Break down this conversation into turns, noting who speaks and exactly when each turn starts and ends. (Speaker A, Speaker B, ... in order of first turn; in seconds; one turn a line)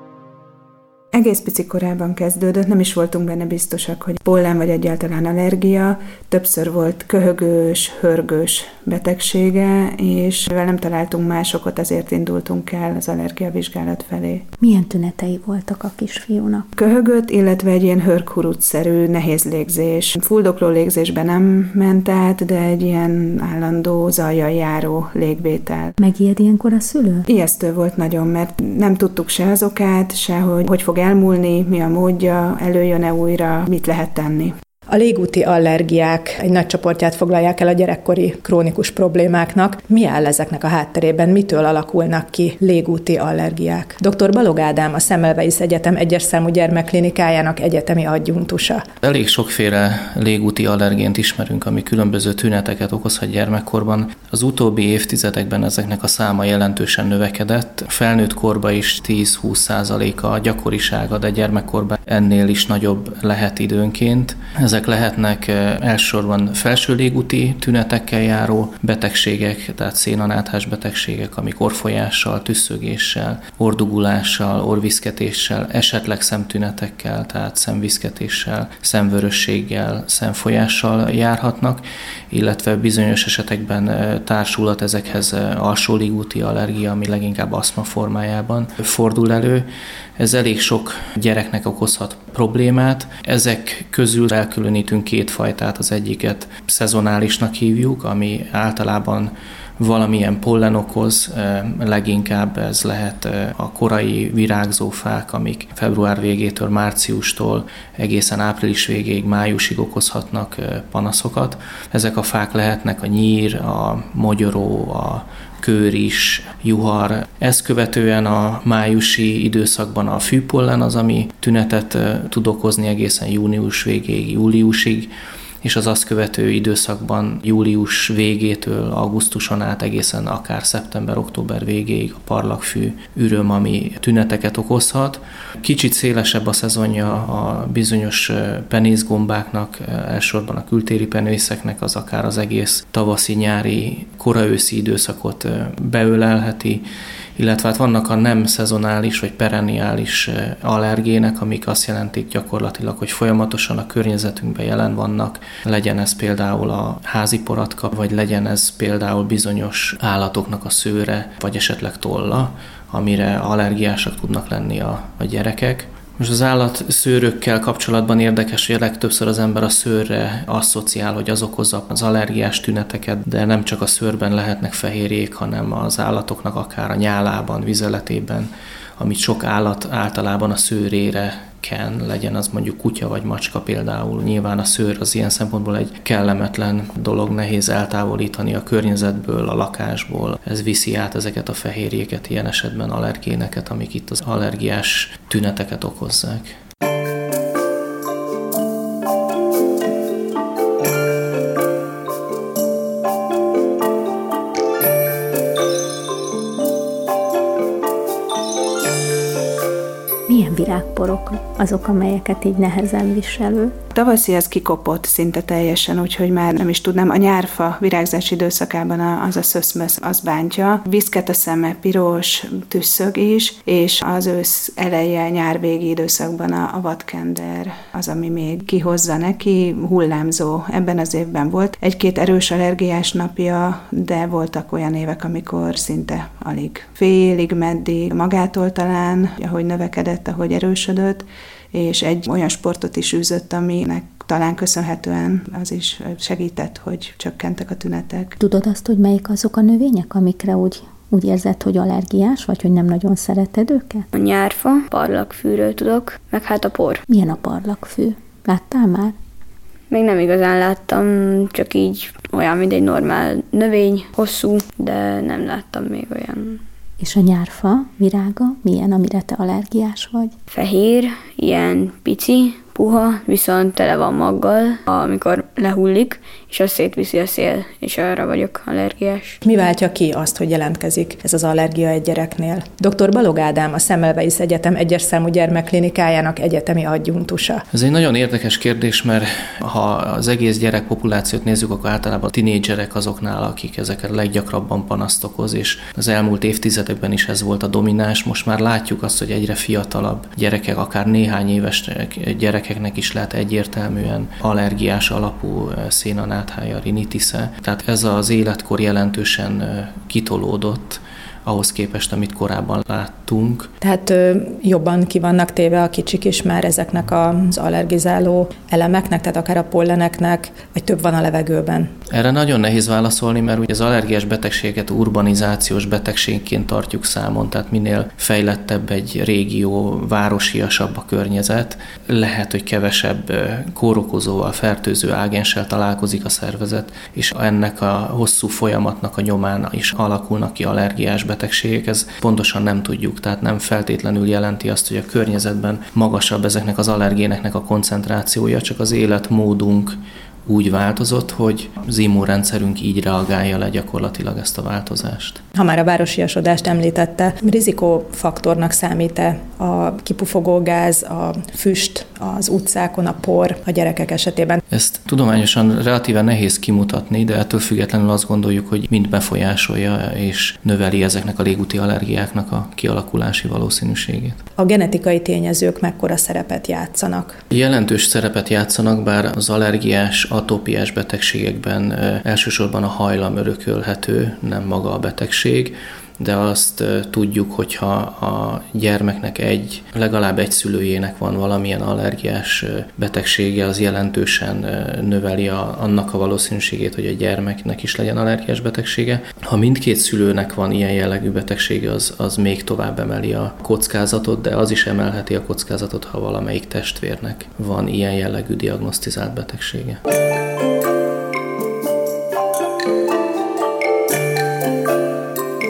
Speaker A: 1.1-14.4
Speaker B: 14.6-16.7
Speaker A: 16.8-26.0
Speaker B: 26.0-27.3
Speaker A: 27.3-34.5
Speaker C: 34.9-48.8
Speaker D: 49.0-89.7
Speaker D: 90.2-125.1
Speaker D: 125.6-146.8
Speaker D: 147.4-196.6
Speaker B: 210.3-213.7
Speaker A: 213.9-248.4
Speaker B: 248.4-254.1
Speaker E: 254.1-257.0
Speaker B: 257.1-259.1
Speaker E: 259.9-266.6
Speaker B: 267.0-270.3
Speaker E: 270.5-279.4
Speaker C: 279.4-287.6
Speaker D: 287.7-313.7
Speaker C: 313.8-321.9
Speaker D: 322.1-355.4
Speaker C: 355.5-364.6
Speaker D: 364.7-374.4
Speaker C: 374.6-377.4
Speaker D: 377.5-410.0